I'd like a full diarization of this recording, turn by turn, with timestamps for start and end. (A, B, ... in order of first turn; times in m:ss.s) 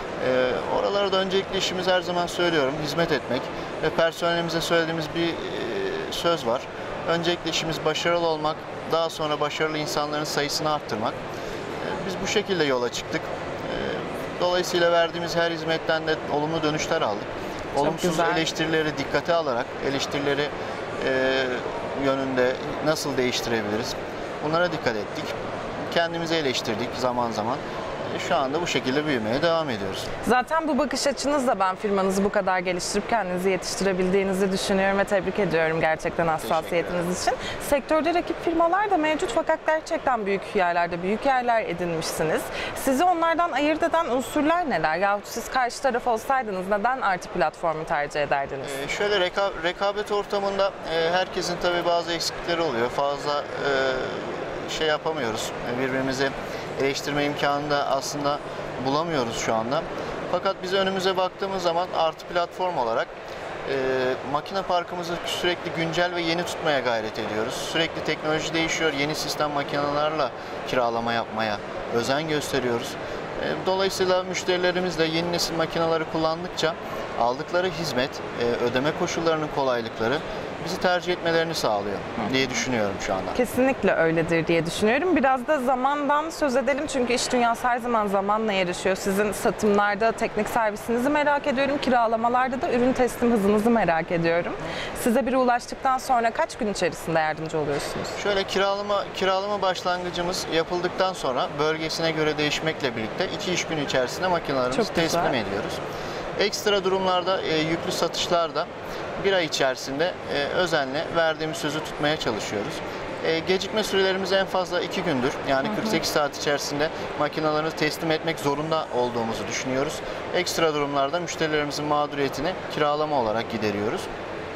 0:00.2-0:11.2 A
0:11.8-0:25.4 A
0:17.8-0:18.4 B
0:25.9-0:30.1 A
0:30.2-0:48.8 B
0:36.4-0:37.1 A
0:48.6-1:03.1 A
1:03.6-1:23.4 A
1:23.3-1:38.2 B
1:38.2-1:45.8 A
1:44.7-1:45.4 B
1:46.4-2:04.1 A